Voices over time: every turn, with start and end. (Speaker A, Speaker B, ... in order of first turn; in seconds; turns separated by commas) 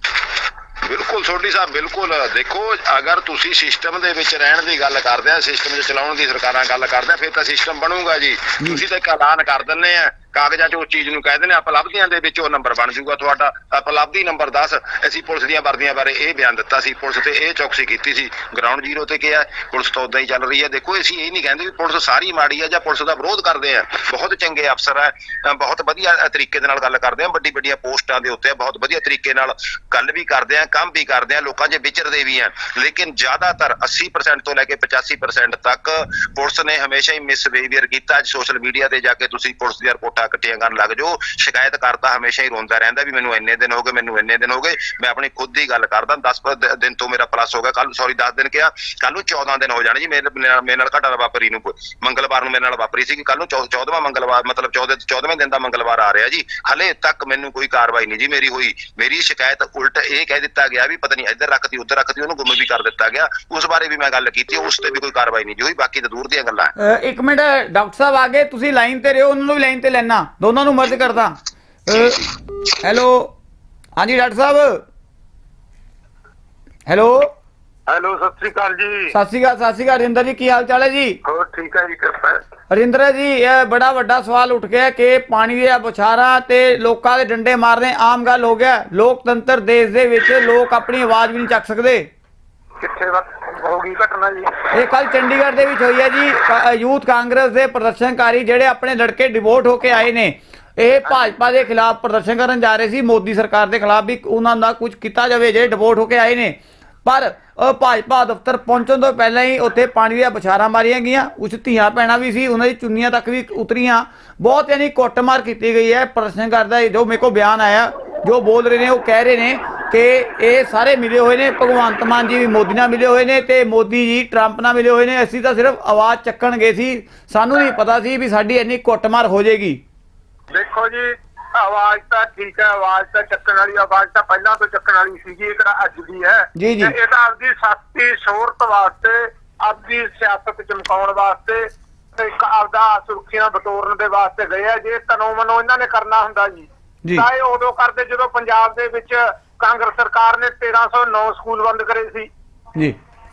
Speaker A: 0.8-66.7, Speaker B: 66.8-71.4, Speaker B: 71.9-72.2, Speaker A: 71.9-72.3, Speaker B: 72.8-73.3, Speaker B: 74.0-74.8, Speaker B: 76.9-77.3, Speaker C: 77.9-79.1, Speaker B: 79.1-81.2, Speaker C: 81.2-82.4, Speaker B: 82.7-92.1, Speaker C: 92.8-94.7, Speaker B: 94.7-129.8, Speaker C: 130.5-152.3, Speaker B: 136.6-136.9